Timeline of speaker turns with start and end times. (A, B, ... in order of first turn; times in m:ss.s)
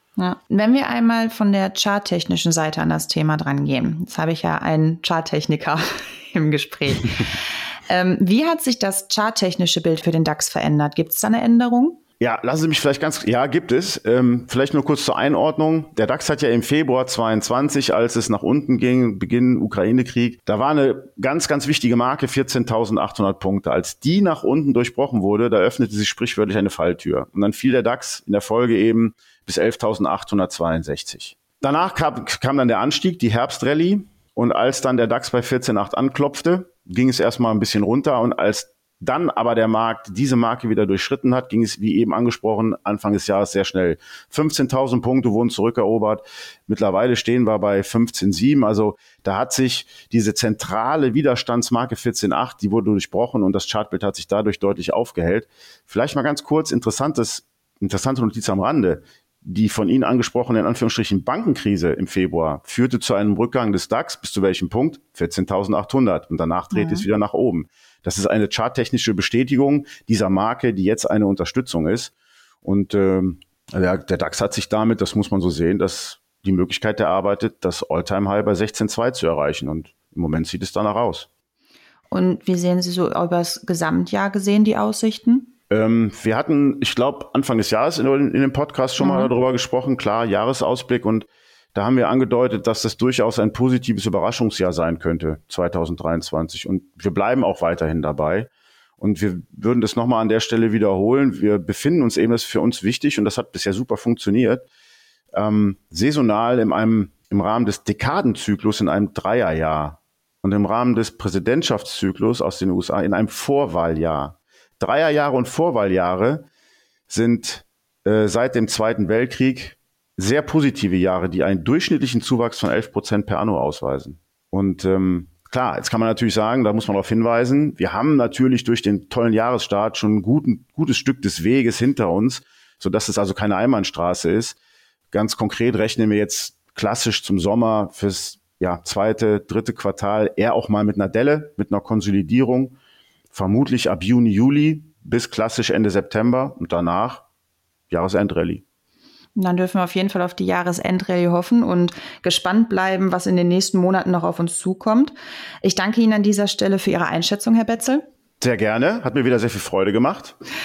0:00.2-0:12.0 A
0:12.2-1:21.3 B
1:06.7-1:07.1 A
1:22.1-1:25.5 A
1:25.7-1:44.7 B
1:29.0-1:29.3 A
1:45.4-1:56.5 B
1:57.1-2:14.6 B
2:15.1-2:22.8 B
2:23.3-2:27.2 B
2:27.9-2:28.6 B
2:29.4-2:38.0 A
2:38.4-2:40.4 B